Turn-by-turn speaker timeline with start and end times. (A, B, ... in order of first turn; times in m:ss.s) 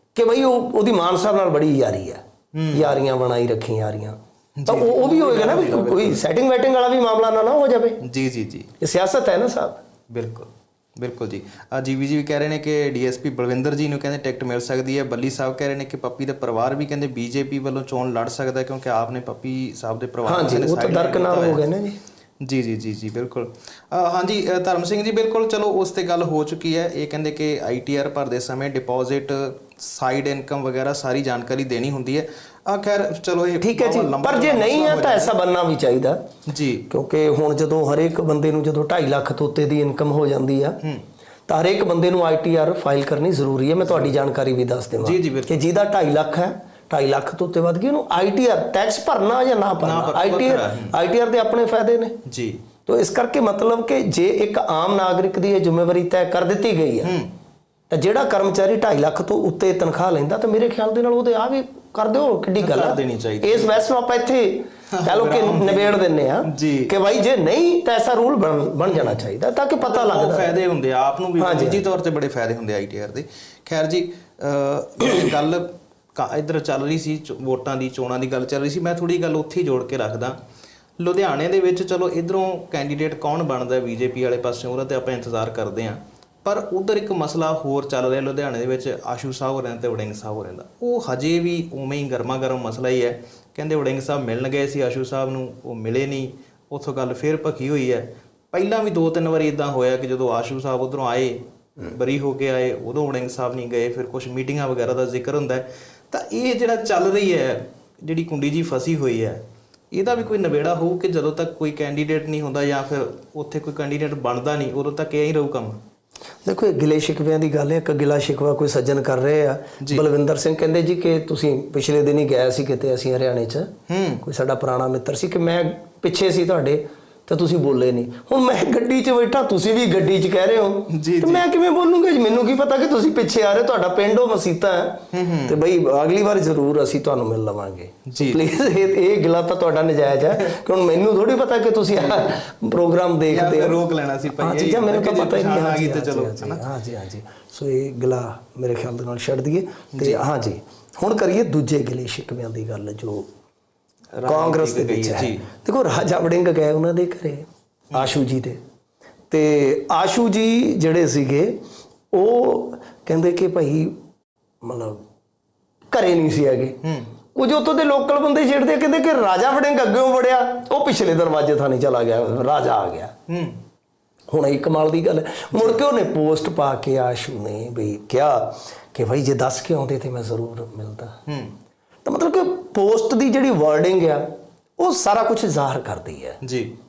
0:00.1-0:08.0 A
0:02.5-0:03.0 B
0:04.6-0:06.2 B
0:08.0-0:08.7 B
0:08.8-0:09.8 A
0:10.1-0:21.6 B
0:20.2-0:22.0 A
0:22.4-0:35.3 B
0:33.6-0:36.2 A
0:36.4-0:36.9 B
0:36.9-0:40.8 A
0:41.5-0:52.2 A
0:43.8-0:44.1 B
0:45.0-0:45.6 B
0:49.8-0:50.9 B
0:52.2-0:52.6 B
0:52.8-0:57.1 A
0:57.0-0:57.3 B
0:57.9-1:10.6 A
1:02.6-1:03.8 B
1:04.9-1:06.9 B
1:08.8-1:09.3 B
1:09.8-1:20.4 B
1:11.4-1:11.8 A
1:21.0-1:55.8 B
1:56.4-2:03.7 A
1:59.8-2:00.0 B
2:03.9-2:04.2 B
2:04.2-2:23.8 A
2:10.9-2:11.4 B
2:15.1-2:15.6 B
2:18.0-2:18.8 B
2:21.9-2:22.4 B
2:23.3-2:26.6 B
2:24.3-2:33.3 A
2:29.9-2:30.2 B
2:34.1-2:35.5 B
2:34.2-2:38.6 A
2:39.3-2:41.6 A
2:42.1-2:43.9 A
2:44.6-2:45.0 A
2:45.9-2:46.8 A
2:46.8-2:47.1 B
2:47.3-2:53.1 A
2:53.3-2:53.6 B
2:54.3-3:01.2 A
2:55.5-2:55.8 B
3:01.3-3:01.5 B
3:02.0-3:06.4 A
3:06.4-3:06.7 B